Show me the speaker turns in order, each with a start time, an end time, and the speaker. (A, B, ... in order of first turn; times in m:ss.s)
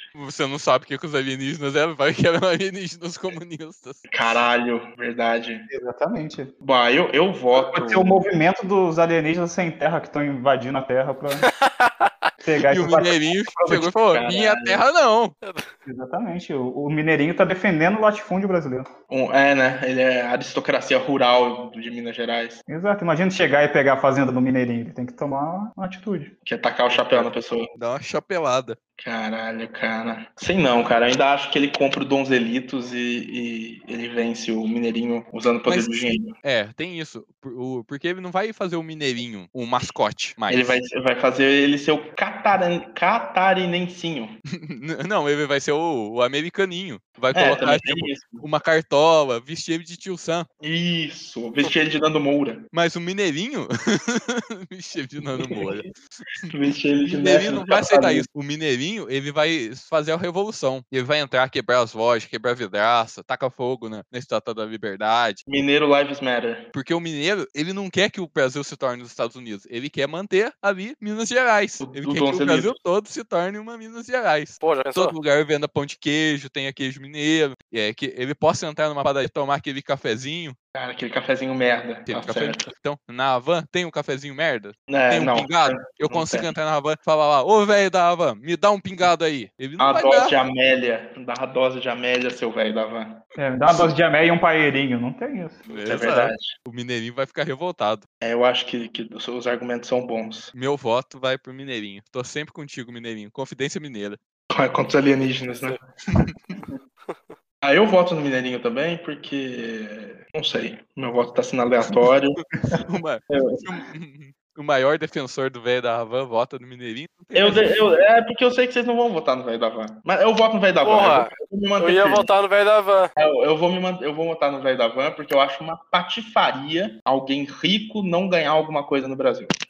0:00.1-0:04.1 A
0:04.1-0:05.7 B
0:05.7-0:06.5 C
0:06.6-0:08.2 B
0:07.6-0:11.5 C
0:11.5-0:12.3 D
0:12.4-0:13.8 C
0:12.7-0:15.3 A
0:13.8-0:14.8 B
0:15.8-0:18.9 C
0:19.1-0:22.6 B
0:22.7-0:26.3 C
0:26.4-0:27.7 B
0:26.9-0:28.8 A
0:29.0-0:36.3 B
0:35.7-0:40.8 A
0:40.5-0:44.4 B
0:44.6-0:50.5 A
0:47.3-0:48.4 B
0:50.6-0:52.6 B
0:52.7-0:55.9 A
0:55.4-0:55.8 B
0:56.5-0:58.3 B
0:57.0-1:05.4 A
1:05.5-1:06.7 B
1:06.7-1:20.6 A
1:11.8-1:12.7 B
1:14.6-1:15.1 D
1:20.7-1:22.7 B
1:22.1-1:30.3 A
1:24.9-1:26.5 B
1:29.8-1:33.2 B
1:33.4-1:35.6 C
1:35.7-1:38.0 A
1:35.7-1:36.5 B
1:38.2-1:40.5 B
1:40.5-1:44.2 A
1:44.5-1:45.8 B
1:46.1-1:46.3 A
1:47.1-1:47.3 D
1:47.6-1:52.8 B
1:52.8-1:57.9 A
1:53.3-1:53.7 B
1:57.3-2:02.3 B
2:00.8-2:03.1 D
2:03.2-2:09.5 B